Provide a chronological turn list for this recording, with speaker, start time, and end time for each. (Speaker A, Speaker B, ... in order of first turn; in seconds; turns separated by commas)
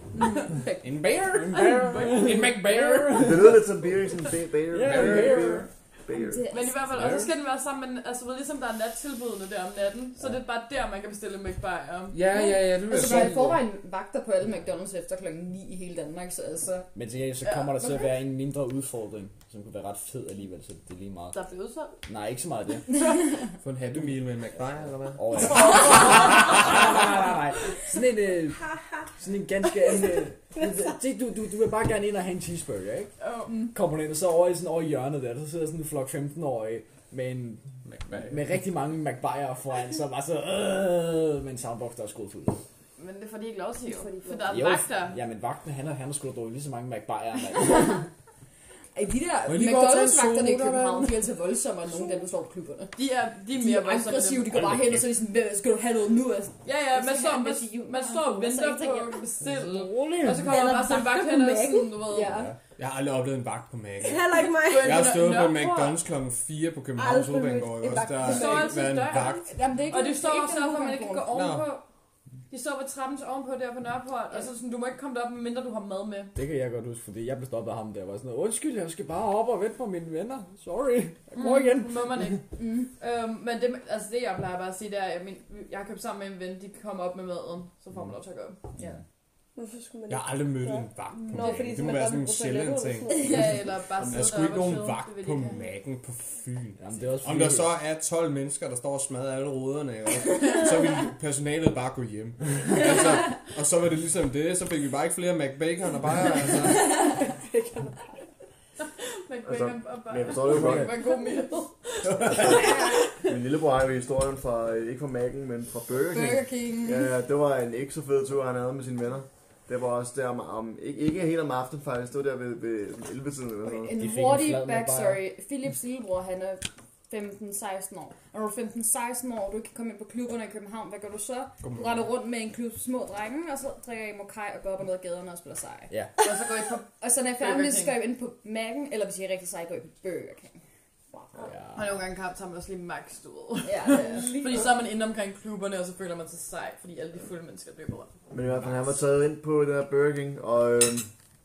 Speaker A: 0.2-0.8, Speaker B: 0.8-3.5, Speaker C: 1.4-3.6, Speaker D: 3.2-6.5, Speaker C: 4.7-5.7, Speaker B: 4.8-5.6, Speaker A: 6.1-7.3, Speaker E: 6.5-12.2, Speaker B: 6.9-7.3, Speaker B: 12.1-13.6, Speaker A: 12.4-16.9, Speaker C: 16.9-21.4, Speaker A: 17.5-18.0, Speaker E: 21.3-21.9, Speaker C: 22.1-22.9, Speaker B: 23.6-26.3, Speaker C: 25.1-33.1, Speaker E: 33.2-33.7, Speaker C: 33.7-37.6, Speaker B: 37.8-38.4, Speaker C: 38.2-42.6, Speaker E: 43.0-45.2, Speaker A: 43.9-44.6, Speaker C: 44.5-48.1, Speaker A: 48.9-53.0, Speaker B: 49.5-51.2, Speaker E: 53.0-54.5, Speaker A: 53.5-59.2, Speaker C: 54.5-55.0, Speaker E: 56.6-62.4, Speaker C: 59.4-60.6, Speaker F: 60.4-62.5, Speaker B: 62.8-69.5, Speaker F: 64.0-65.2, Speaker E: 64.5-66.0, Speaker F: 67.0-69.0, Speaker E: 68.2-71.8, Speaker A: 69.3-71.3, Speaker B: 71.3-71.7, Speaker E: 72.5-76.3, Speaker C: 76.3-82.4, Speaker E: 81.3-88.6, Speaker A: 82.6-82.9, Speaker F: 89.5-93.8, Speaker B: 90.1-107.0, Speaker A: 91.2-91.6, Speaker E: 93.1-95.7, Speaker C: 96.8-97.7, Speaker F: 106.6-108.2, Speaker E: 109.0-112.6, Speaker D: 109.4-111.0, Speaker C: 110.4-110.9, Speaker F: 111.1-111.5, Speaker D: 112.2-123.9, Speaker F: 112.5-113.0, Speaker A: 116.1-117.1, Speaker A: 123.6-135.9, Speaker C: 124.0-125.2, Speaker B: 131.6-132.0, Speaker E: 136.2-138.0, Speaker A: 137.0-140.6, Speaker C: 141.4-142.0, Speaker E: 141.7-148.1, Speaker A: 143.6-144.6, Speaker F: 143.9-144.7, Speaker D: 148.3-151.1